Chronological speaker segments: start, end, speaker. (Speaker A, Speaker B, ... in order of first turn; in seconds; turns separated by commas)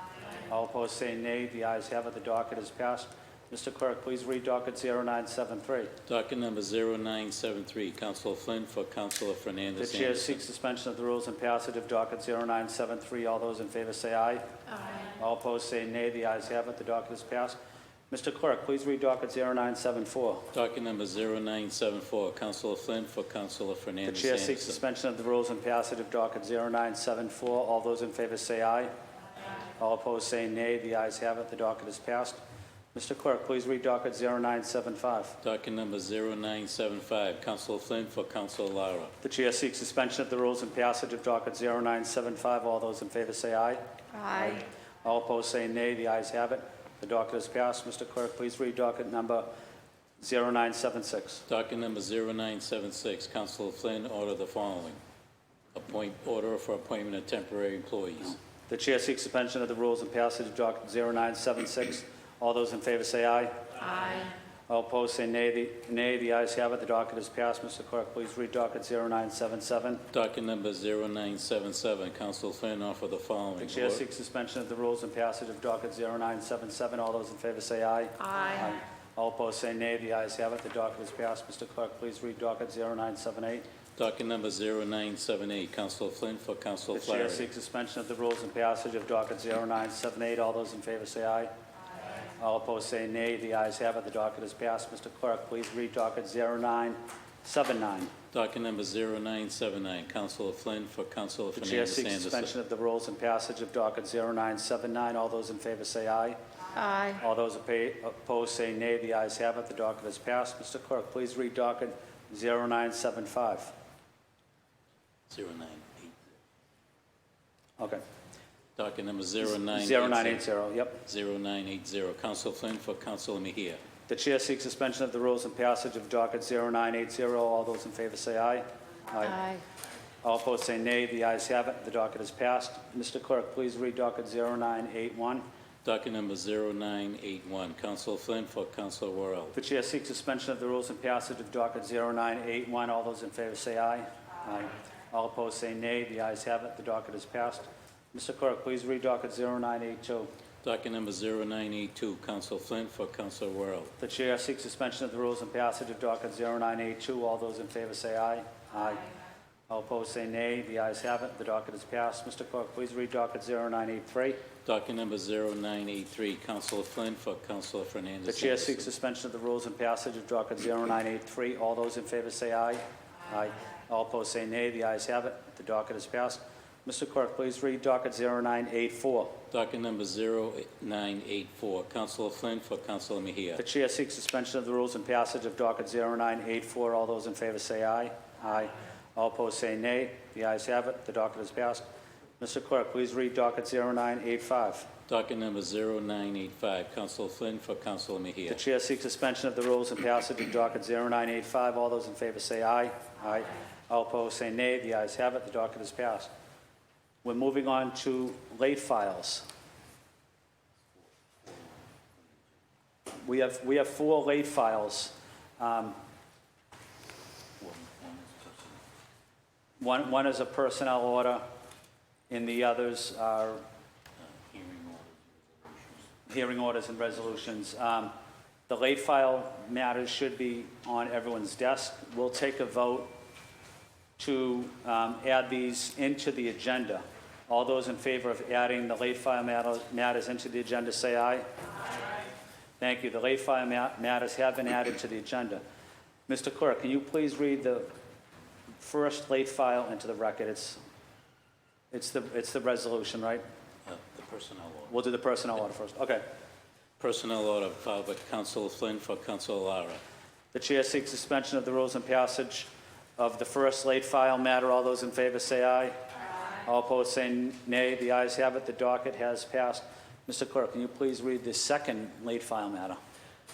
Speaker A: 0.5-5.9, Speaker B: 6.1-10.4, Speaker A: 9.8-14.4, Speaker C: 14.8-15.1, Speaker A: 15.2-17.6, Speaker A: 18.1-20.5, Speaker B: 20.5-24.8, Speaker A: 24.1-28.9, Speaker A: 29.8-32.4, Speaker A: 32.9-35.4, Speaker B: 35.4-39.1, Speaker A: 39.2-43.8, Speaker C: 44.1-44.6, Speaker A: 44.3-49.5, Speaker A: 50.2-51.4, Speaker B: 51.5-55.0, Speaker B: 55.8-58.4, Speaker A: 58.7-63.5, Speaker C: 63.8-64.3, Speaker A: 64.7-70.0, Speaker B: 70.1-74.0, Speaker A: 73.6-83.7, Speaker C: 78.3-78.6, Speaker B: 84.0-87.5, Speaker A: 86.9-91.5, Speaker A: 92.4-98.1, Speaker B: 98.3-102.5, Speaker A: 101.5-106.4, Speaker C: 106.8-107.2, Speaker A: 107.2-113.7, Speaker B: 115.3-116.2, Speaker B: 118.8-120.5, Speaker A: 119.5-121.0, Speaker B: 121.0-123.8, Speaker A: 124.1-129.4, Speaker C: 129.3-129.6, Speaker A: 130.2-135.4, Speaker B: 135.8-139.6, Speaker A: 139.5-150.3, Speaker B: 150.6-153.9, Speaker A: 154.0-159.1, Speaker A: 159.7-164.4, Speaker B: 164.7-168.9, Speaker A: 168.2-179.4, Speaker B: 179.5-183.6, Speaker A: 183.6-191.8, Speaker A: 192.4-194.9, Speaker B: 195.1-198.6, Speaker A: 198.5-206.3, Speaker A: 207.2-209.4, Speaker A: 213.2-216.0, Speaker B: 217.6-218.8, Speaker A: 219.8-221.4, Speaker A: 222.3-223.6, Speaker B: 224.2-226.1, Speaker A: 226.3-228.1, Speaker A: 228.7-233.1, Speaker A: 234.2-241.5, Speaker A: 242.8-245.6, Speaker A: 246.3-247.9, Speaker A: 248.8-250.8, Speaker A: 251.9-253.4, Speaker B: 253.9-255.0, Speaker A: 254.9-256.2, Speaker B: 257.0-260.0, Speaker A: 260.5-266.0, Speaker A: 266.6-273.0